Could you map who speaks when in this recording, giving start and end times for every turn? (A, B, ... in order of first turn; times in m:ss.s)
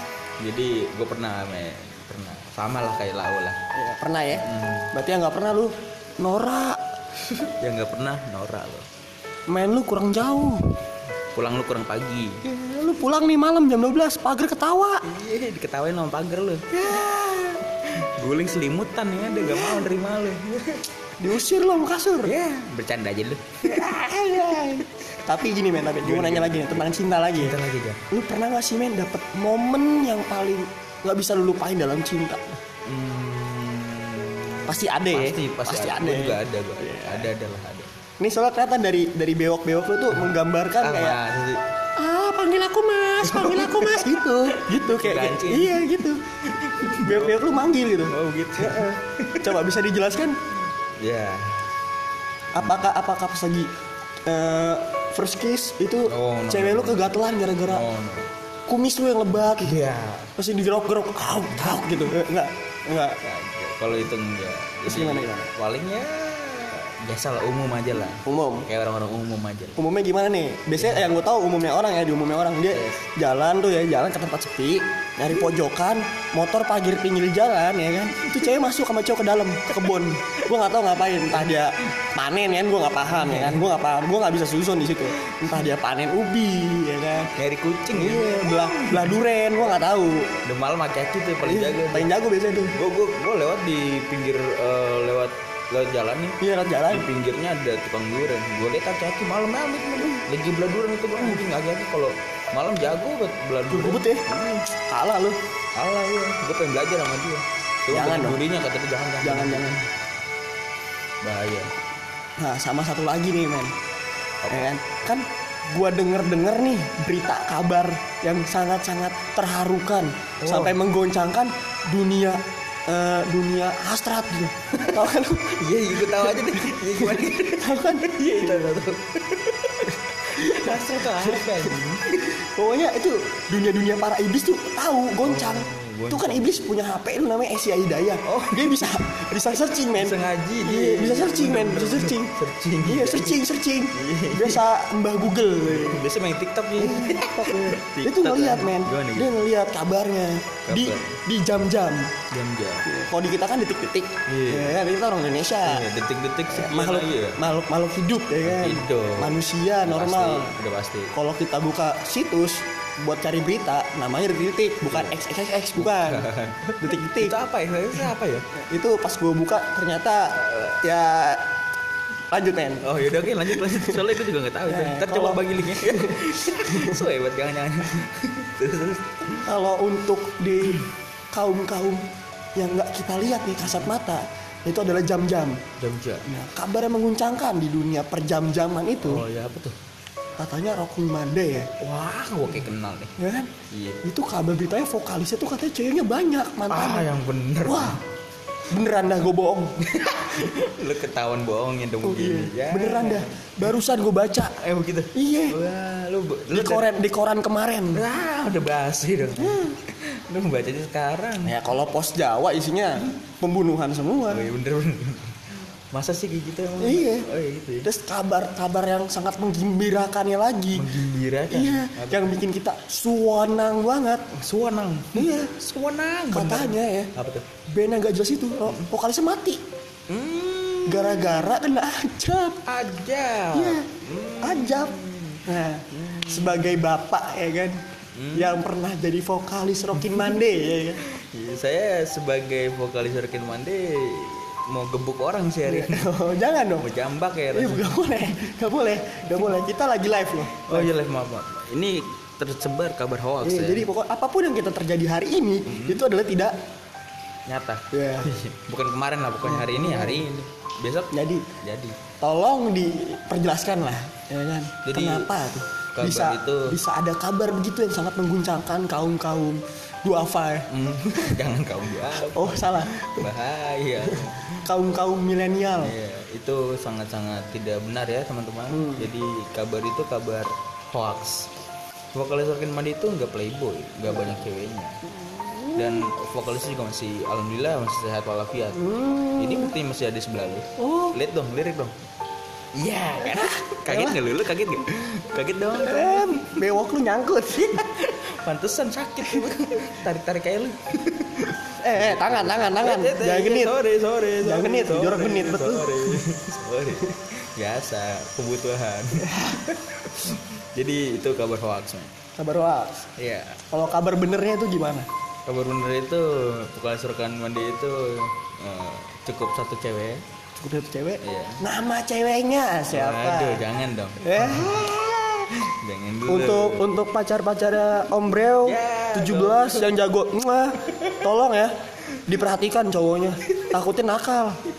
0:00.4-0:03.6 A
0:03.8-0:06.8 B
0:04.4-0:04.9 A
0:07.6-0:08.9 A
0:09.5-0:10.6 B
0:11.4-0:12.4 A
0:12.4-0:15.0 B
0:15.0-0:17.1 A
0:16.7-0:17.6 B
0:18.0-0:20.8 A
0:19.5-0:19.8 B
0:21.2-0:22.3 B
0:22.2-0:24.8 A
0:23.6-0:27.6 B
0:26.0-0:28.0 A
0:28.1-0:32.6 B
0:32.8-0:37.9 A
0:34.7-0:37.3 B
0:38.2-0:41.2 B
0:40.1-0:41.6 A
0:42.0-0:46.2 B
0:43.2-0:45.8 A
0:46.5-0:49.6 A
0:46.8-0:50.4 B
0:51.0-0:51.6 A
0:52.5-0:53.7 B
0:54.3-0:57.8 B
0:56.0-0:57.1 A
0:57.7-0:58.3 A
0:58.7-0:59.8 B
0:59.6-1:00.3 A
1:00.4-1:03.2 B
1:01.5-1:02.0 A
1:03.2-1:09.8 A
1:04.9-1:05.5 B
1:08.2-1:08.7 B
1:09.8-1:27.3 B
1:10.8-1:11.1 A
1:12.7-1:13.0 A
1:18.2-1:18.6 A
1:21.3-1:21.6 A
1:23.0-1:23.6 A
1:25.4-1:25.7 A
1:27.4-1:29.2 A
1:27.9-1:30.4 B
1:30.4-1:32.1 A
1:31.4-1:32.8 B
1:32.7-1:36.4 A
1:36.4-1:37.1 B
1:36.9-1:44.6 A
1:43.7-1:44.2 B
1:44.9-1:45.4 B
1:45.8-1:49.8 A
1:47.9-1:48.4 B
1:49.2-1:49.9 B
1:51.2-1:51.7 A
1:52.4-1:53.8 B
1:54.4-1:54.7 A
1:54.5-2:08.7 B
2:00.4-2:00.8 A
2:04.8-2:05.1 A
2:05.6-2:12.2 A
2:10.4-2:11.7 B
2:12.4-2:22.3 B
2:15.2-2:16.6 A
2:18.2-2:19.4 A
2:19.9-2:23.4 A
2:22.8-2:26.0 B
2:23.9-2:24.6 A
2:25.7-2:29.4 A
2:26.8-2:32.1 B
2:30.7-2:31.2 A
2:32.3-2:32.9 A
2:32.8-2:35.8 B
2:34.3-2:34.8 A
2:35.6-2:37.4 A
2:36.5-2:40.5 B
2:38.4-2:41.1 A
2:41.1-2:47.4 B
2:44.8-2:45.1 A
2:45.8-2:48.5 A
2:48.6-2:51.4 B
2:50.4-2:50.8 A
2:52.3-2:52.9 B
2:52.8-2:59.4 A
2:53.5-2:54.0 B
2:54.7-2:57.0 B
2:59.4-3:00.8 B
3:01.3-3:02.0 B
3:02.6-3:05.6 B
3:05.8-3:06.2 A
3:06.3-3:09.2 B
3:09.0-3:09.8 A
3:10.4-3:11.7 B
3:11.8-3:13.1 A
3:13.2-3:13.5 B
3:13.7-3:14.0 A
3:14.0-3:17.1 B
3:16.7-3:18.0 A
3:17.6-3:18.0 B
3:18.7-3:19.8 B
3:19.8-3:23.8 A
3:22.0-3:24.6 B
3:24.6-3:26.9 A
3:25.2-3:25.6 B
3:26.5-3:28.0 B
3:27.9-3:31.6 A
3:31.4-3:34.5 B
3:34.3-3:37.9 A
3:36.8-3:37.3 B
3:37.8-3:40.9 B
3:40.7-3:42.4 A
3:41.5-3:44.2 B
3:44.4-3:47.5 A
3:45.2-3:45.5 B
3:46.3-3:47.1 B
3:47.7-3:49.6 B
3:50.1-3:51.5 A
3:50.9-3:52.6 B
3:52.6-3:56.8 A
3:53.5-3:53.9 B
3:54.4-3:54.9 B
3:55.5-3:57.8 B
3:58.2-3:58.6 A
3:58.3-4:01.0 B
4:00.1-4:06.1 A
4:05.7-4:06.9 B
4:06.8-4:08.4 A
4:07.5-4:10.9 B
4:10.6-4:13.9 A
4:13.4-4:16.5 B
4:15.7-4:16.0 A
4:17.5-4:22.0 A
4:17.9-4:18.3 B
4:19.4-4:20.2 B
4:21.1-4:21.4 B
4:22.2-4:30.7 B
4:24.8-4:25.3 A
4:26.0-4:26.8 A
4:30.7-4:34.7 A
4:32.2-4:33.3 B
4:34.1-4:36.0 B
4:35.8-4:41.5 A
4:38.7-4:39.1 B
4:42.1-4:45.0 A
4:44.1-4:44.4 B
4:45.1-4:46.1 B
4:45.8-4:48.8 A
4:48.8-4:49.7 B
4:49.4-4:52.0 A
4:50.8-4:51.2 B
4:52.7-4:56.7 A
4:53.2-4:54.2 B
4:55.8-4:57.8 B
4:57.5-5:12.1 A
5:01.8-5:03.7 B
5:04.4-5:06.2 B
5:12.4-5:12.9 B
5:13.2-5:13.6 A
5:13.7-5:15.1 B
5:15.5-5:20.2 A
5:20.6-5:23.6 B
5:21.2-5:21.6 A
5:22.9-5:24.9 A
5:24.2-5:25.5 B
5:25.7-5:26.8 A
5:26.3-5:31.7 B
5:28.6-5:29.9 A
5:32.3-5:34.6 B